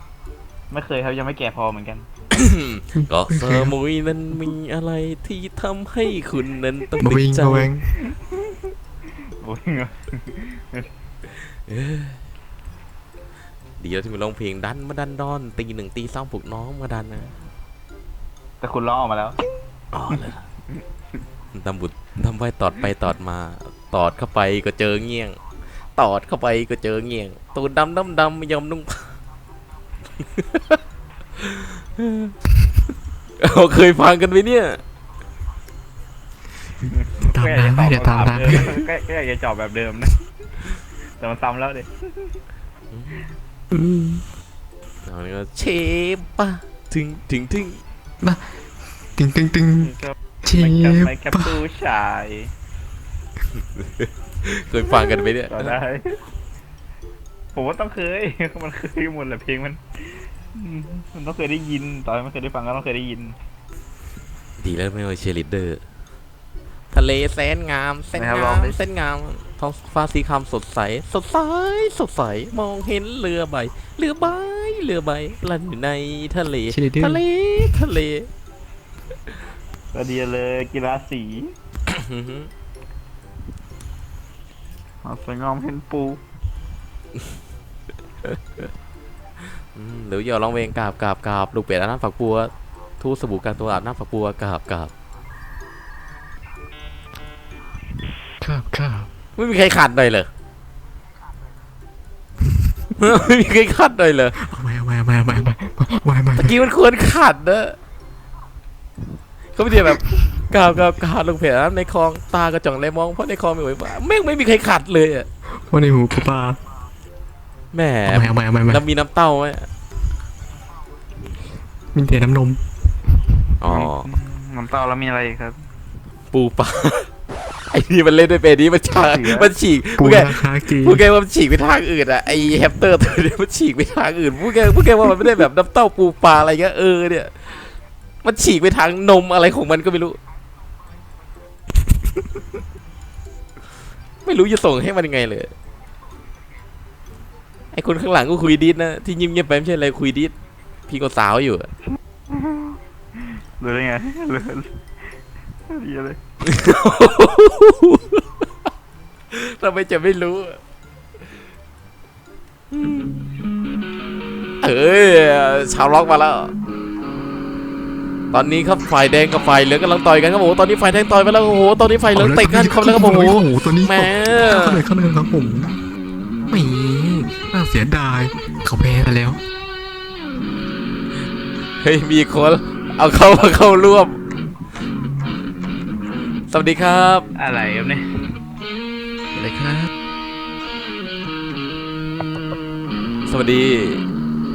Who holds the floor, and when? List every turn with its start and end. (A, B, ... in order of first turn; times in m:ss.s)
0:00.7-0:02.1 A
0:02.3-0:07.7 B
0:03.0-0:03.7 C
0:07.0-0:07.9 C
0:09.4-0:10.9 A
0:11.7-0:12.2 B
0:13.8-0:17.3 B
0:18.6-0:19.4 A
0:19.9-0:20.4 B
0:21.5-0:25.4 B
0:26.0-0:29.1 B
0:30.3-0:30.8 B
0:31.4-0:32.3 B
0:33.4-0:34.8 B
0:36.9-0:40.2 A
0:37.2-0:38.7 C
0:41.2-0:41.9 A
0:42.9-0:43.2 B
0:43.7-0:44.2 C
0:45.0-0:47.8 B
0:49.2-0:49.9 C
0:49.8-0:52.5 A
0:50.4-0:51.6 C
0:53.8-0:55.7 B
0:55.5-0:56.2 A
0:57.5-0:59.8 A
1:00.5-1:03.4 A
1:04.6-1:05.8 B
1:06.9-1:18.3 B
1:08.1-1:08.8 A
1:16.7-1:17.2 C
1:19.9-1:21.5 A
1:21.9-1:22.5 B
1:25.0-1:26.2 A
1:29.7-1:34.9 B
1:38.4-1:39.1 C
1:39.4-1:40.3 B
1:43.0-1:44.4 B
1:44.3-1:46.6 C
1:46.4-1:47.8 B
1:49.5-1:55.3 B
1:55.7-1:56.6 C
1:57.7-1:59.7 B
1:58.0-1:58.8 C
2:01.9-2:02.6 C
2:03.6-2:04.1 B
2:03.6-2:05.6 A
2:06.3-2:07.1 B
2:07.7-2:17.6 B
2:09.0-2:09.5 A
2:10.0-2:11.0 C
2:18.2-2:20.2 B
2:24.2-2:25.5 B
2:27.7-2:30.3 B
2:30.9-2:31.7 B
2:32.3-2:32.8 A
2:33.6-2:34.7 A
2:35.7-2:36.2 A
2:36.4-2:38.2 B
2:39.3-2:40.6 B
2:42.7-2:43.2 B
2:44.6-2:46.5 B
2:48.3-2:54.8 B
2:52.1-2:55.7 C
2:56.5-2:59.4 C
3:01.8-3:04.2 B
3:06.5-3:07.3 B
3:07.4-3:08.0 A
3:09.3-3:09.9 B
3:13.3-3:14.0 B